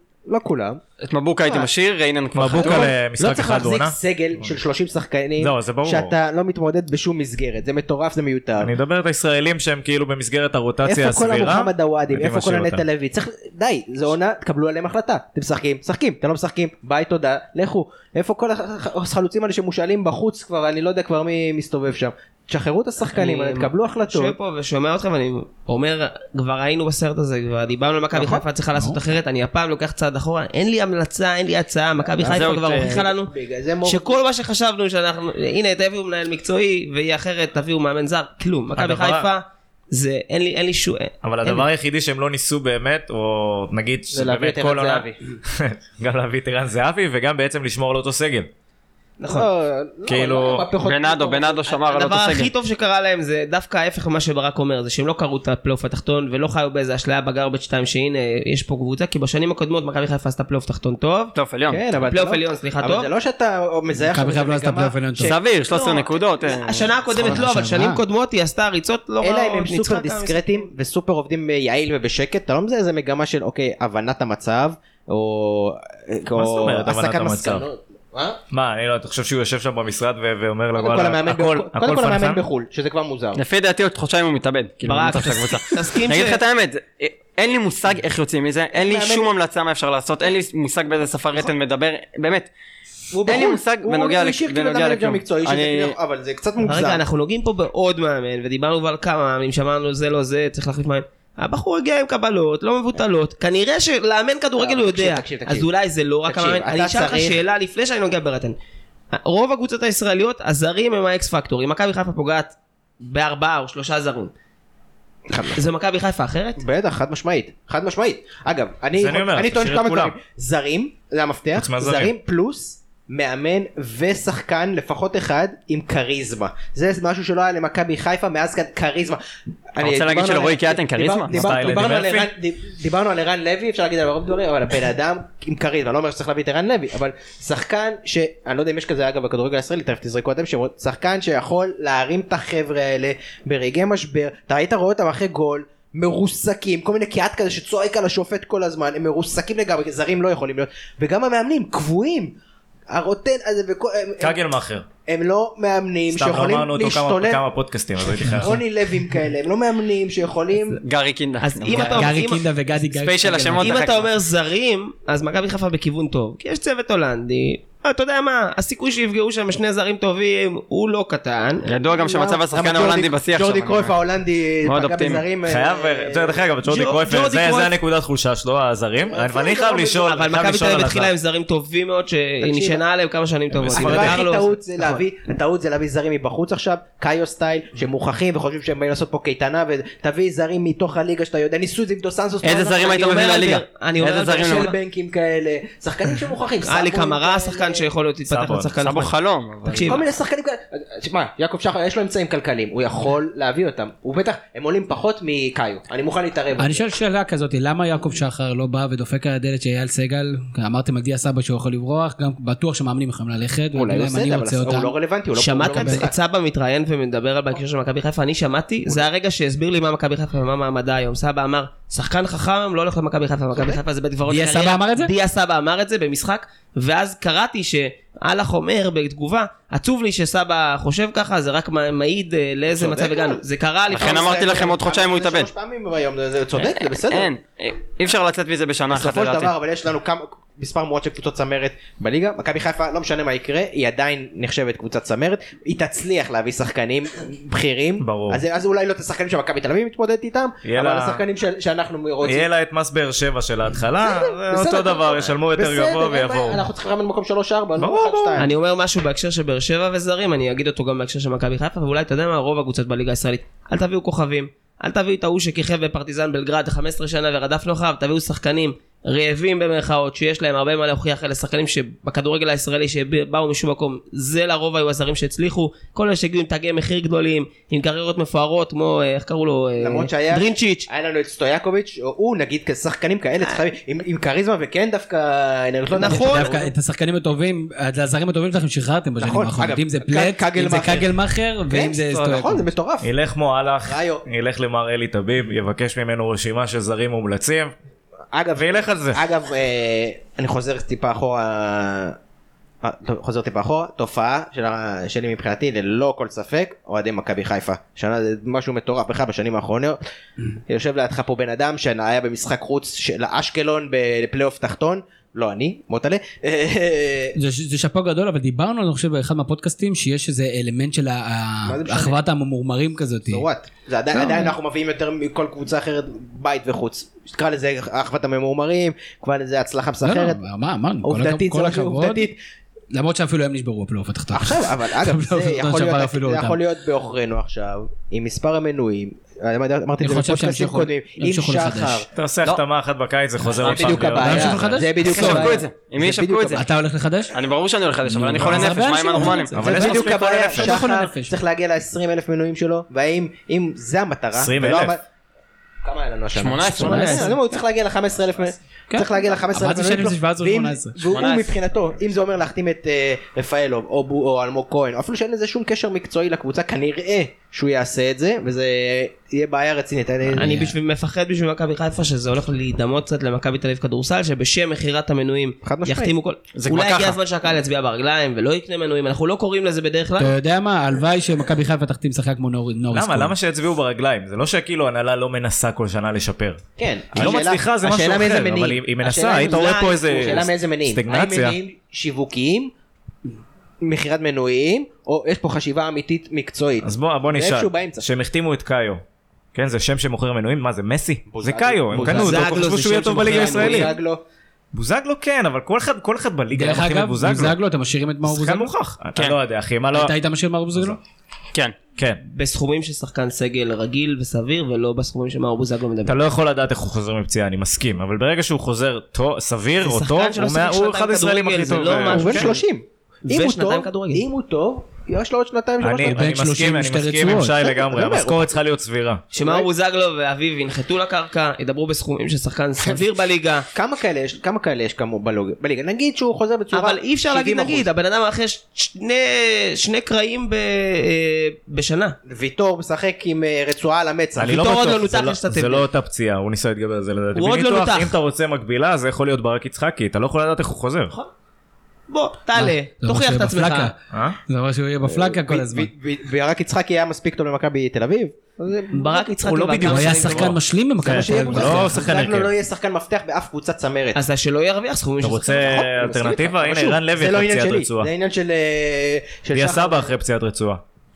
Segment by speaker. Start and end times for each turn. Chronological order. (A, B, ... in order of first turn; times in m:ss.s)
0:00.3-0:00.8 A
0:01.0-0:02.9 B
0:02.3-0:04.5 C
0:02.5-0:08.7 A
0:05.4-0:06.1 C
0:08.6-0:12.8 C
0:10.8-0:24.4 A
0:23.1-0:33.3 D
0:28.1-0:28.4 A
0:32.2-0:33.0 B
0:32.8-0:34.1 A
0:33.8-0:41.6 D
0:38.7-0:39.3 C
0:41.2-0:48.5 C
0:44.1-0:45.1 A
0:49.2-0:49.5 D
0:49.3-0:51.8 A
0:50.1-0:50.7 C
0:50.8-0:52.5 B
0:51.8-1:01.3 D
1:01.3-1:01.8 B
1:01.7-1:05.4 A
1:02.1-1:03.1 D
1:04.1-1:05.4 E
1:05.2-1:06.9 B
1:05.7-1:10.7 D
1:07.2-1:08.0 E
1:09.2-1:18.4 A
1:16.3-1:17.6 C
1:18.5-1:22.4 C
1:20.8-1:23.4 A
1:23.3-1:32.5 B
1:24.8-1:26.4 D
1:28.7-1:29.3 A
1:33.1-1:37.0 A
1:33.2-1:36.0 B
1:36.6-1:48.6 D
1:44.6-1:45.7 A
1:46.3-1:47.4 A
1:49.1-1:54.3 D
1:55.3-1:55.6 A
1:55.5-1:56.6 D
1:56.6-2:09.2 A
1:59.0-2:00.2 C
2:01.5-2:02.1 C
2:09.7-2:32.4 A
2:09.8-2:11.4 B
2:11.3-2:12.3 C
2:32.9-2:34.4 A
2:34.2-2:34.9 C
2:35.0-2:37.4 A
2:36.1-2:38.6 C
2:38.1-2:40.8 A
2:40.8-2:42.1 B
2:41.4-2:42.4 D
2:41.7-2:43.8 E
2:42.8-2:44.1 B
2:43.6-2:51.7 D
2:51.6-2:54.0 B
2:51.8-2:56.4 A
2:54.6-2:55.2 B
2:55.4-3:01.1 C
2:56.6-2:57.7 D
2:59.1-3:00.1 A
3:00.0-3:05.0 D
3:02.4-3:02.8 A
3:03.5-3:04.2 C
3:03.7-3:13.4 A
3:12.4-3:14.7 B
3:12.8-3:14.7 D
3:14.3-3:17.8 A
3:16.6-3:19.1 D
3:18.3-3:18.7 C
3:18.8-3:20.0 B
3:19.6-3:20.0 D
3:19.8-3:26.8 A
3:26.6-3:34.9 E
3:33.7-3:36.1 A
3:35.4-3:54.5 D
3:44.3-3:45.1 E
3:52.7-3:53.4 A
3:53.9-3:55.5 B
3:53.9-3:57.3 A
3:56.6-3:59.5 B
3:58.9-4:12.5 A
4:08.0-4:08.4 C
4:10.6-4:11.2 C
4:12.2-4:16.7 C
4:14.0-4:18.5 A
4:17.8-4:18.5 C
4:18.4-4:40.9 D
4:39.8-4:46.6 A
4:45.9-4:46.6 D
4:46.0-4:52.7 E
4:49.2-4:51.1 A
4:51.7-4:53.1 A
4:53.0-4:57.7 C
4:53.8-4:54.2 A
4:58.3-5:02.2 A
4:58.6-4:59.2 C
5:02.8-5:10.0 A
5:10.7-5:17.4 A
5:17.4-5:23.4 E
5:21.6-5:22.2 A
5:23.3-5:30.4 A
5:24.1-5:24.6 E
5:30.0-5:32.3 E
5:31.0-5:32.4 A
5:32.9-5:36.6 E
5:34.3-5:42.6 A
5:40.0-5:42.0 E
5:42.1-5:44.7 C
5:43.4-5:45.6 E
5:43.5-5:46.6 A
5:43.6-5:44.0 B
5:45.0-5:46.6 B
5:46.5-5:47.3 E
5:47.3-5:49.6 B
5:48.0-5:51.4 E
5:48.4-5:48.7 C
5:49.2-5:55.0 A
5:49.5-5:50.8 C
5:54.3-5:54.9 C
5:55.8-6:10.6 A
5:56.3-5:57.3 B
5:56.7-5:57.4 E
5:58.9-6:01.1 E
6:01.1-6:01.5 B
6:10.3-6:10.7 E
6:10.4-6:20.3 D
6:15.6-6:16.1 A
6:16.5-6:17.2 B
6:20.2-6:23.3 E
6:22.9-6:31.6 C
6:26.8-6:32.7 A
6:29.4-6:30.2 D
6:33.8-6:38.1 A
6:36.8-6:39.0 C
6:39.5-6:43.9 C
6:41.3-6:44.2 A
6:41.9-6:42.3 E
6:42.1-6:43.9 D
6:44.7-6:47.6 C
6:46.5-6:48.7 E
6:48.2-6:50.1 C
6:49.9-6:51.0 E
6:52.2-6:56.2 D
6:56.0-7:02.5 C
6:59.8-7:02.6 D
7:02.1-7:06.2 A
7:03.3-7:04.2 D
7:05.8-7:09.2 C
7:06.0-7:07.6 E
7:07.6-7:08.6 A
7:09.3-7:13.6 D
7:09.3-7:09.7 A
7:13.7-7:17.9 A
7:16.7-7:22.2 D
7:22.3-7:24.7 A
7:24.4-7:31.1 C
7:24.4-7:25.9 D
7:27.3-7:28.2 D
7:32.1-7:33.9 D
7:32.5-7:35.9 E
7:34.1-7:34.4 C
7:35.0-7:39.2 A
7:38.9-7:40.5 D
7:39.3-7:42.5 C
7:39.8-7:42.1 E
7:41.0-7:44.2 A
7:44.1-7:45.7 D
7:45.2-7:48.1 C
7:45.5-7:50.2 A
7:49.5-7:50.8 C